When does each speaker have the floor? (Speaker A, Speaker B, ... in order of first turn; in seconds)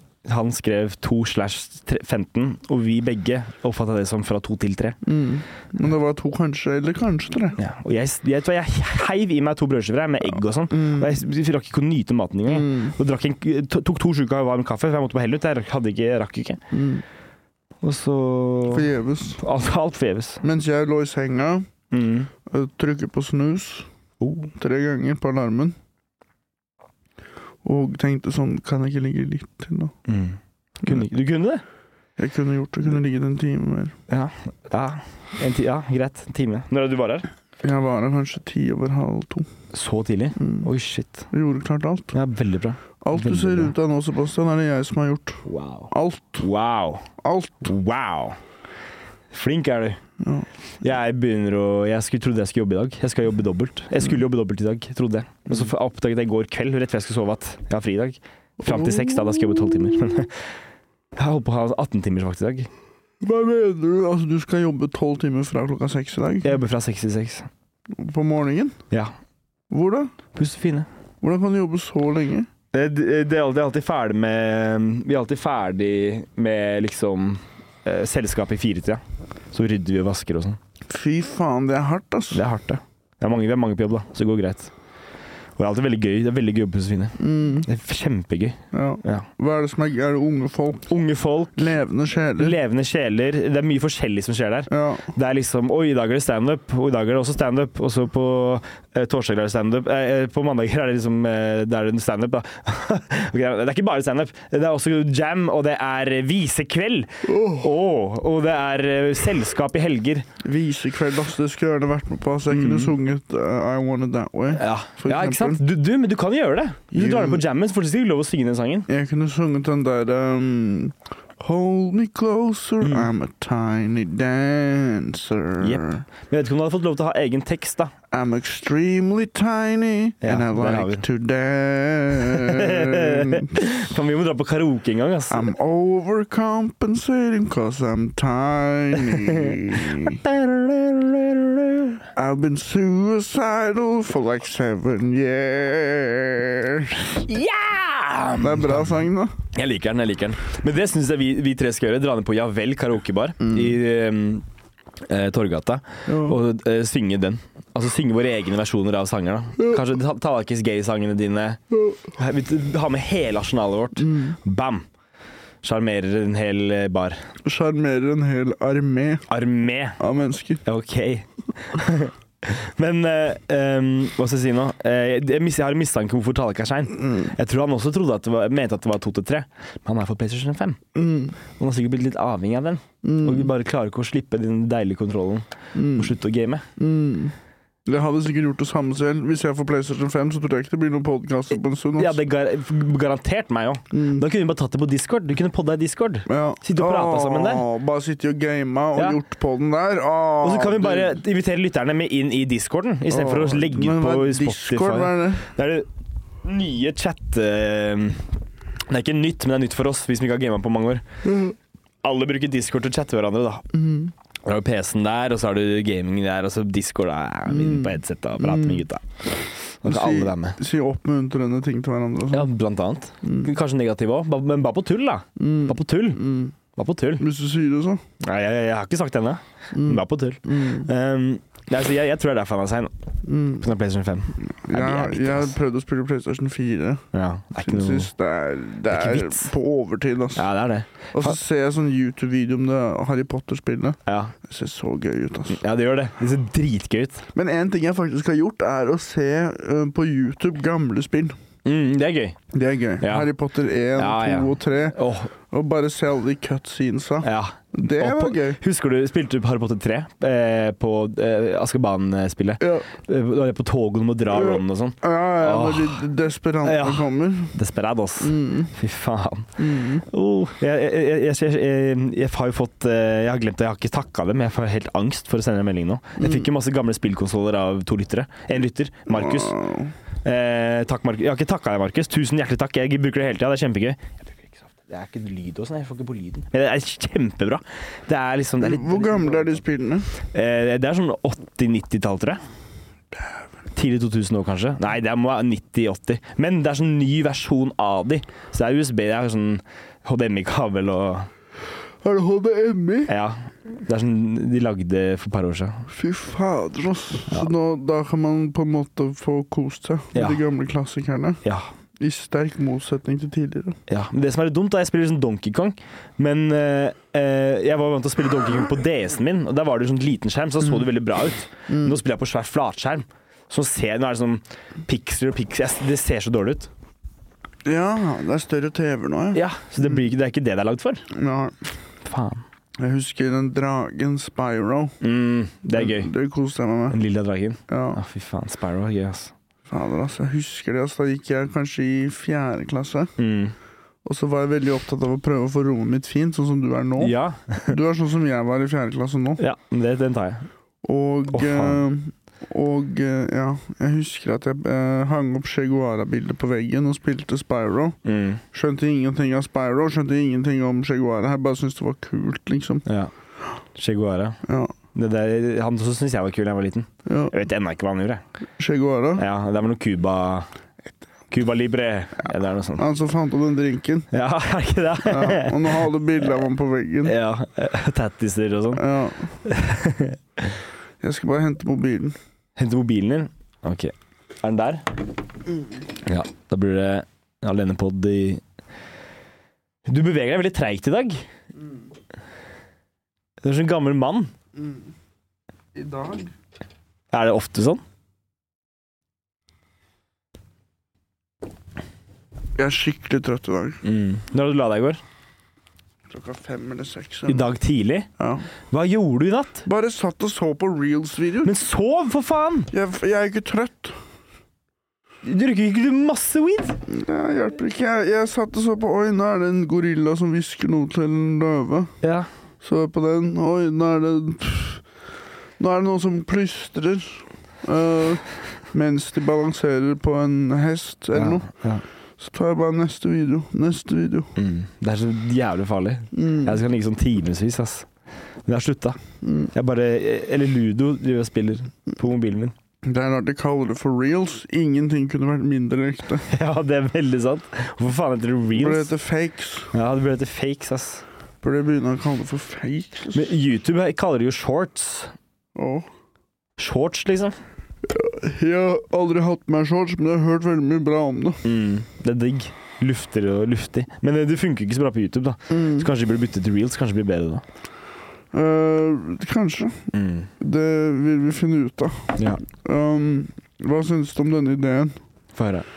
Speaker A: 0.2-5.0, 7.6-16.6, 17.8-20.4, 21.9-22.3, 24.2-24.5, 30.1-31.6, 34.1-37.3, 39.7-41.3, 42.1-43.7, 45.5-47.1, 47.6-48.4, 49.3-50.0, 50.8-60.5, 61.1-62.7, 66.4-67.5, 70.3-70.9, 72.7-79.0, 79.5-80.6, 82.3-84.7, 85.6-89.3, 90.9-91.5, 92.4-110.3, 112.5-112.9, 114.5-118.9, 122.8-123.1, 125.6-127.9, 130.2-131.0, 132.2-135.5, 139.1-142.0, 147.2-148.9, 149.5-154.4, 155.1-161.6, 162.1-164.8, 165.6-167.2, 169.3-170.0, 170.6-180.8, 181.6-186.6, 192.0-197.7, 200.4-205.9, 206.4-208.3, 208.9-211.0, 212.0-213.6, 214.4-220.6, 222.3-227.2, 228.2-232.9, 233.6-235.6, 237.1-238.1, 238.9-239.5, 240.3-241.3, 244.1-244.3, 245.5-247.2, 251.6-252.4, 253.0-253.3, 253.9-255.3, 257.2-266.0, 266.6-279.6, 280.2-289.6, 290.2-292.4, 293.7-301.3, 303.1-305.8, 310.1-310.4, 311.4-311.7, 313.9-326.7, 329.3-331.0, 332.0-332.4, 335.0-336.1, 336.9-339.3, 343.2-343.5, 347.0-347.8, 349.4-350.5, 351.3-351.8, 358.0-358.4, 362.9-363.1, 363.8-364.4, 364.9-368.2, 369.2-370.5, 371.3-372.8, 374.1-375.8, 377.0-378.8, 379.4-380.5, 382.6-384.9, 386.0-388.4, 389.9-391.2, 393.4-394.3, 397.1-397.8, 403.8-405.0, 407.3-408.1, 408.7-409.6, 411.4-412.7, 415.2-416.8, 422.0-422.3, 431.1-431.8, 434.4-437.9, 438.4-439.0, 439.5-442.5, 446.3-448.9, 449.7-451.0, 453.1-455.1, 456.6-457.3, 461.4-467.4, 469.9-470.3, 472.2-472.4, 475.3-475.6
Speaker B: 5.0-7.6, 10.7-11.2, 12.5-12.9, 16.7-17.0, 18.7-19.4, 20.4-21.7, 22.4-23.9, 24.5-25.8, 27.6-29.9, 32.2-34.0, 37.6-39.5, 40.4-40.7, 41.3-42.1, 43.0-46.4, 47.2-47.7, 50.2-50.5, 58.6-60.1, 63.2-66.5, 67.9-68.8, 69.7-70.1, 71.2-72.5, 80.9-82.4, 87.2-87.7, 88.7-90.9, 91.5-92.6, 94.7-95.1, 107.2-107.7, 110.4-115.6, 116.9-117.4, 118.9-126.0, 128.1-133.6, 135.3-140.2, 142.2-147.2, 148.4-149.3, 153.4-153.8, 156.1-156.4, 164.0-164.4, 167.4-169.2, 170.0-170.6, 180.9-181.3, 183.0-183.5, 185.7-186.1, 186.8-187.3, 187.8-192.2, 193.9-194.2, 196.3-201.2, 203.1-205.4, 213.7-214.1, 217.5-218.8, 219.8-222.5, 223.2-223.5, 225.4-226.5, 227.2-228.0, 229.7-230.9, 233.2-233.7, 234.6-240.5, 241.1-245.6, 247.3-251.3, 252.5-258.6, 262.6-262.9, 264.3-267.5, 268.2-268.7, 269.6-270.1, 276.2-276.5, 279.1-279.9, 288.6-290.1, 302.0-303.1, 305.9-311.4, 312.0-313.8, 321.7-321.9, 327.6-329.4, 331.1-331.6, 332.8-335.0, 335.7-337.0, 337.7-338.0, 339.7-343.1, 344.0-347.1, 347.7-349.4, 350.8-358.0, 358.5-362.9, 364.4-364.7, 367.1-367.3, 368.6-369.2, 372.8-374.1, 375.1-377.1, 378.8-379.3, 381.0-382.2, 394.6-394.8, 395.7-396.3, 402.6-403.8, 406.1-407.4, 408.2-408.5, 409.6-411.5, 412.7-414.0, 416.9-421.9, 422.6-424.8, 425.6-431.5, 432.2-434.3, 436.1-436.6, 439.2-439.5, 442.8-446.2, 448.5-449.7, 451.4-453.3, 455.5-455.9, 457.8-461.4, 465.5-465.9, 468.3-474.9